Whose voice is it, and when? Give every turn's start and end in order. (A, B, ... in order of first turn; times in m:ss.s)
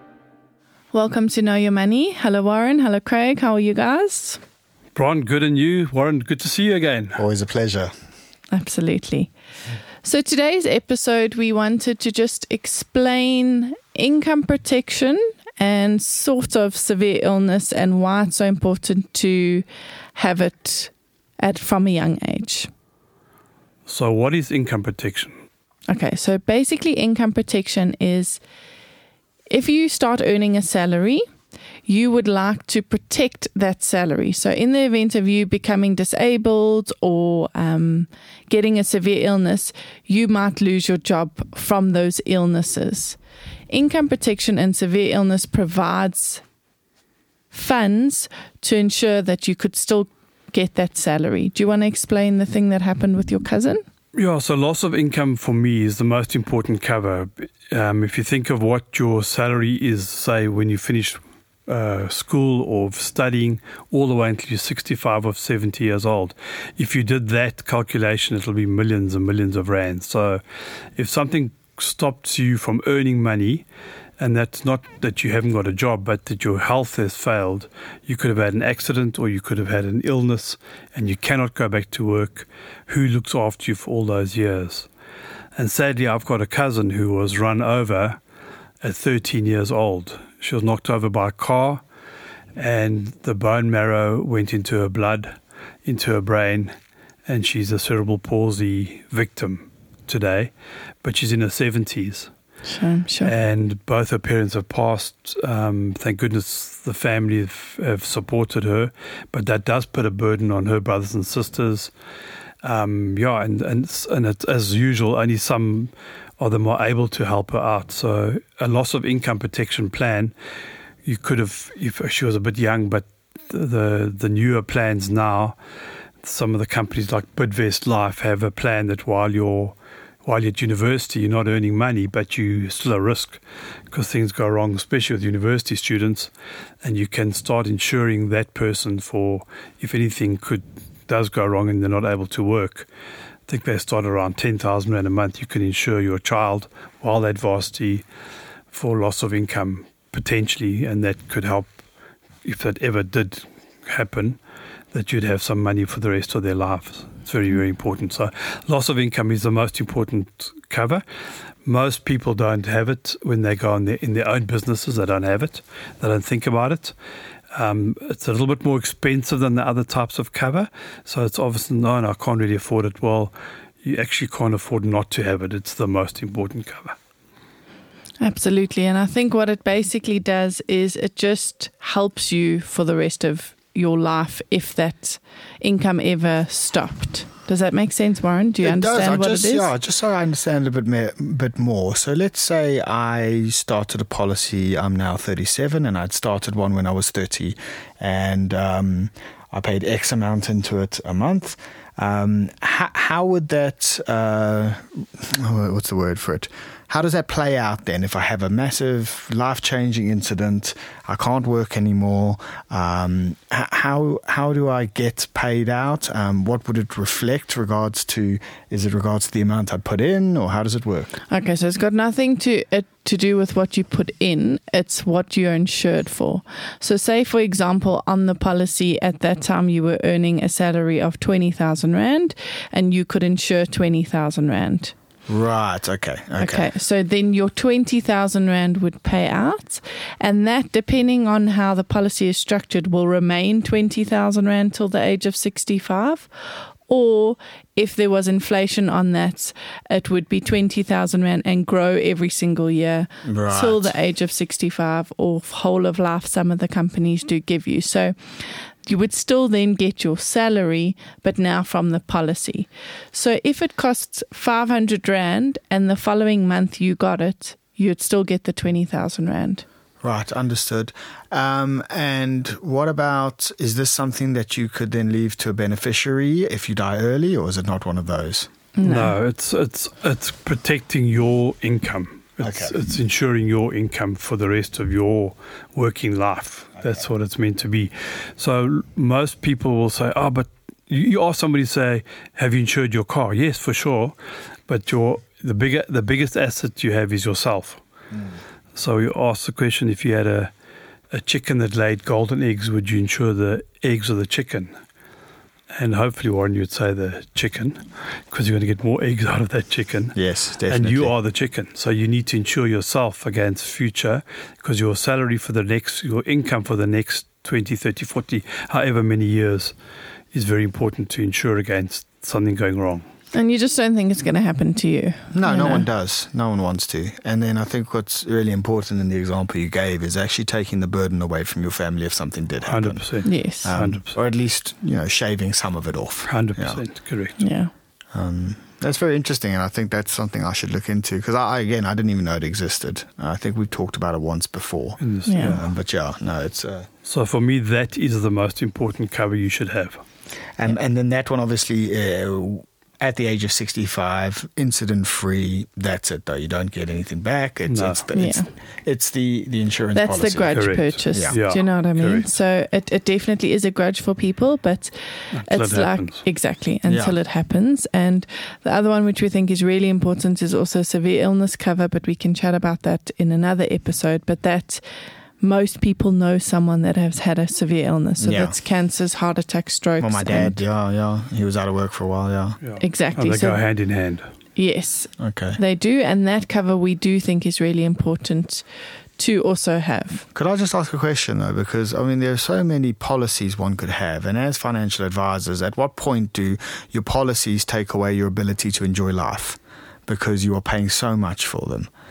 0:00.9-0:04.4 A
0:05.0-0:07.2 B
0:07.2-0:07.9 C
0:08.5-0:09.3 A
0:10.0-0:19.6 A
0:20.2-0:22.7 A
0:23.8-0:25.4 B
0:25.9-0:28.4 A
0:29.5-0:31.2 A
0:31.8-0:43.2 A
0:43.7-0:46.4 A
0:47.5-0:53.8 A
0:54.2-1:10.4 B
1:11.0-1:13.6 B
1:14.2-1:24.9 B
1:25.6-1:28.2 B
1:28.8-1:31.8 B
1:32.6-1:35.3 B
1:35.8-1:36.8 B
1:37.2-1:40.5 B
1:41.0-1:42.3 B
1:42.6-1:43.3 A
1:43.2-1:51.9 B
1:52.6-2:00.3 B
2:01.0-2:05.6 B
2:06.2-2:13.4 B
2:13.9-2:22.9 B
2:23.5-2:28.0 B
2:28.7-2:31.7 B
2:32.4-2:34.4 B
2:34.9-2:41.0 B
2:41.6-2:46.9 B
2:47.5-2:57.0 B
2:58.2-3:09.7 A
3:08.6-3:41.1 C
3:41.3-3:54.9 A
3:55.3-3:56.7 C
3:56.4-4:29.6 A
4:13.2-4:13.9 C
4:30.0-4:38.5 C
4:38.8-4:39.1 A
4:38.8-4:54.2 B
4:42.4-4:42.8 C
4:54.7-4:57.8 B
4:58.7-5:00.5 B
5:01.1-5:04.7 B
5:05.7-5:10.2 B
5:10.1-5:11.1 C
5:10.7-5:19.8 B
5:20.3-5:23.0 B
5:23.3-5:25.9 A
5:25.3-5:36.8 C
5:32.6-5:34.2 B
5:33.2-5:33.7 A
5:36.2-5:37.4 B
5:37.4-5:37.7 A
5:38.1-5:46.9 C
5:45.0-5:45.7 B
5:45.3-5:45.6 A
5:47.0-5:50.0 B
5:50.6-6:01.4 C
5:57.7-5:58.0 B
5:58.1-5:58.5 A
5:59.9-6:14.8 A
6:00.5-6:02.3 B
6:05.3-6:06.2 B
6:06.9-6:07.2 C
6:15.4-6:20.6 A
6:18.2-6:18.6 C
6:20.0-6:22.6 C
6:22.6-6:24.3 B
6:22.8-6:23.6 A
6:24.6-6:28.6 A
6:25.2-6:25.6 C
6:29.2-6:30.2 A
6:30.3-6:41.9 C